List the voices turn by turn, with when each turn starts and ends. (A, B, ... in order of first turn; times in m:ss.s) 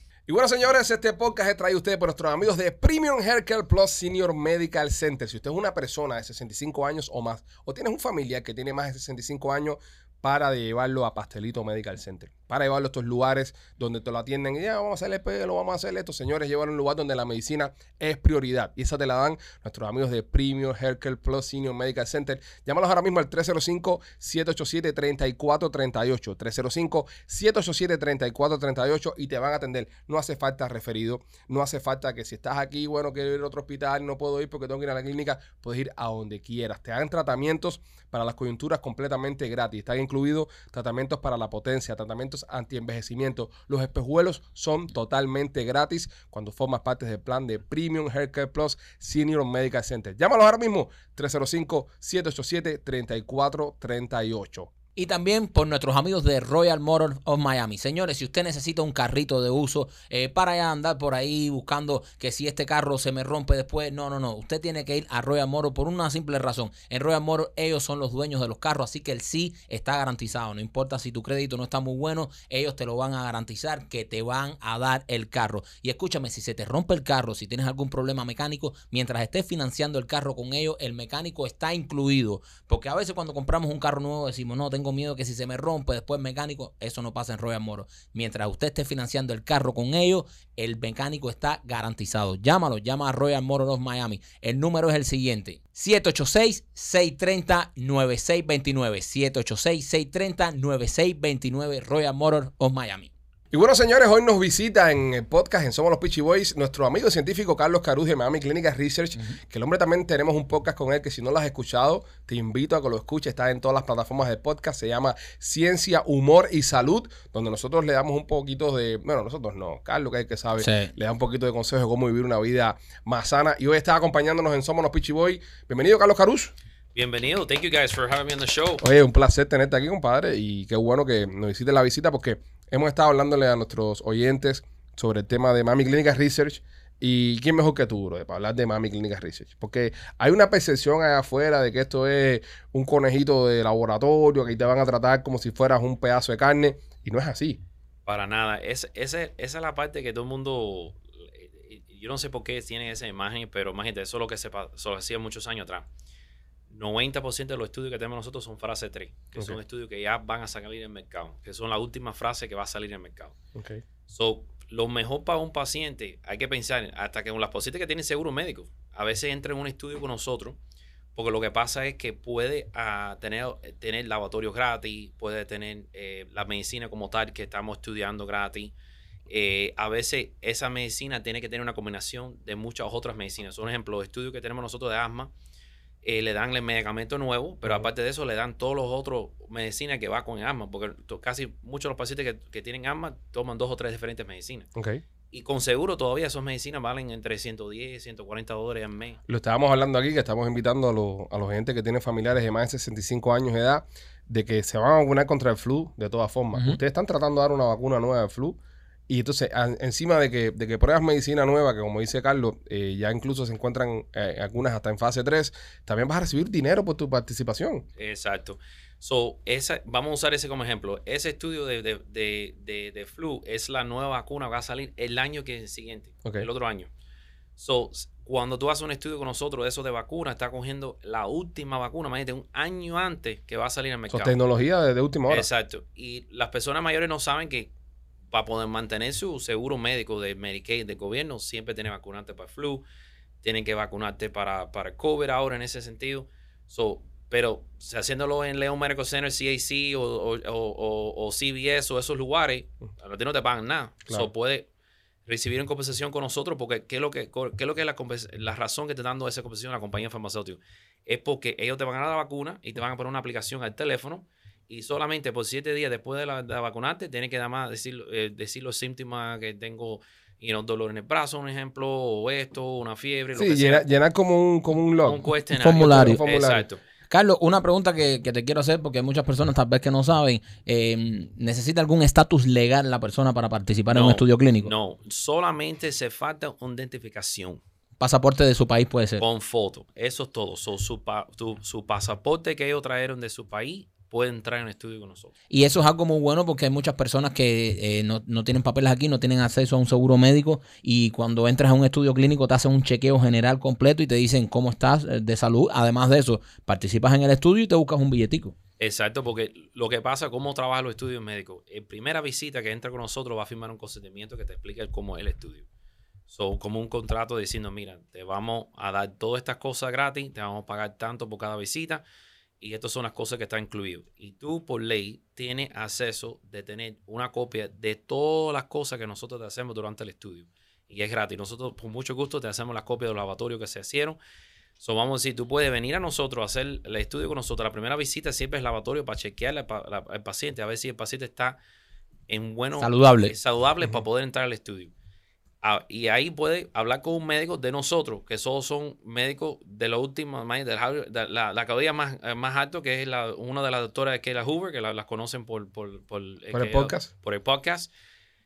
0:00.3-0:54.7 A
0:55.0-1:43.1 B
1:43.5-2:06.5 A
2:00.6-2:00.9 B
2:06.9-2:08.8 C
2:08.8-2:27.6 A
2:28.0-2:35.9 C
2:36.7-2:43.4 C
2:43.6-2:43.8 A
2:44.1-2:50.6 C
2:51.1-2:58.7 C
2:59.3-3:05.3 C
3:06.0-3:14.7 C
3:14.8-3:15.0 A
3:15.3-3:19.2 C
3:19.3-3:28.6 A
3:29.1-3:37.8 A
3:38.0-3:46.9 C
3:47.6-3:54.4 C
3:54.1-3:55.5 A
3:55.3-3:57.7 C
3:58.3-4:02.8 C
4:03.4-4:14.7 C
4:15.2-4:33.9 C
4:33.4-4:36.6 A
4:35.0-4:36.8 C
4:35.5-4:36.2 B
4:37.1-4:44.7 B
4:43.9-4:47.6 C
4:48.0-4:49.2 B
4:49.2-4:55.3 C
4:55.5-5:08.5 B
5:08.8-5:15.6 C
5:16.3-5:22.0 C
5:22.6-5:34.2 C
5:34.8-5:41.6 C
5:42.3-5:44.9 C
5:42.8-5:43.3 B
5:45.6-5:57.9 C
5:56.5-5:57.1 A